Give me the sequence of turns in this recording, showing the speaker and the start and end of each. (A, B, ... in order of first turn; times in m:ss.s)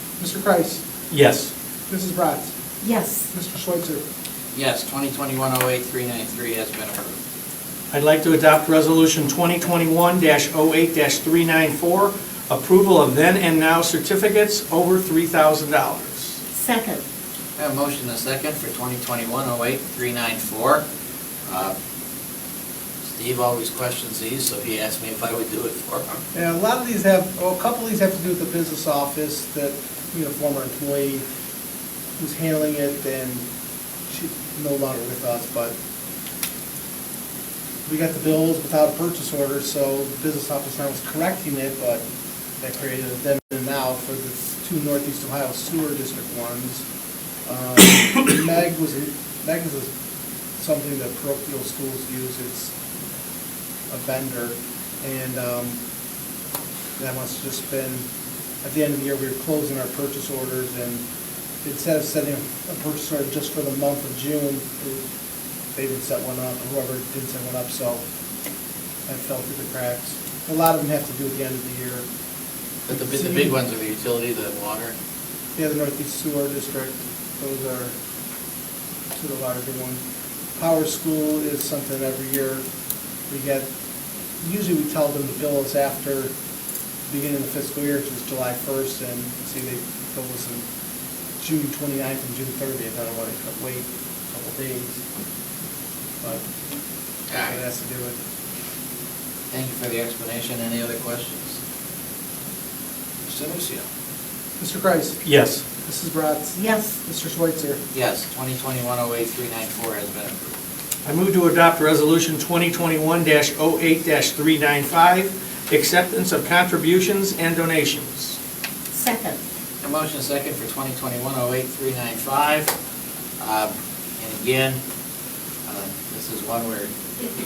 0:00.2-0:00.8 A
0:01.1-0:01.5 B
0:01.9-0:02.5 A
0:02.8-0:03.3 C
0:03.3-0:04.0 A
0:04.5-0:07.2 D
0:07.9-0:16.4 B
0:16.5-0:17.0 C
0:17.6-0:20.8 D
0:21.4-0:21.8 D
0:23.2-0:26.2 D
0:26.3-0:31.2 A
0:32.2-0:33.4 A
0:34.1-0:35.7 A
0:37.8-0:42.0 A
0:42.6-0:46.8 A
0:47.4-0:49.9 A
0:50.6-0:52.7 A
0:53.9-0:55.8 A
0:57.0-0:58.0 A
0:58.6-1:01.0 A
1:01.6-1:05.0 A
1:05.7-1:08.0 A
1:09.1-1:12.0 A
1:12.9-1:14.9 D
1:12.9-1:13.6 A
1:15.6-1:17.9 A
1:19.1-1:20.0 A
1:20.6-1:22.6 A
1:23.3-1:23.7 A
1:24.4-1:26.3 A
1:27.1-1:30.6 A
1:31.4-1:35.0 A
1:37.3-1:37.6 D
1:37.4-1:38.2 A
1:39.5-1:41.6 D
1:43.2-1:43.8 D
1:44.6-1:45.2 A
1:45.2-1:45.6 B
1:45.8-1:47.8 A
1:46.6-1:47.0 C
1:47.9-1:50.5 D
1:51.0-1:58.4 B
1:58.9-1:59.4 C
1:59.8-2:02.7 D
2:03.4-2:04.8 D
2:05.6-2:06.9 D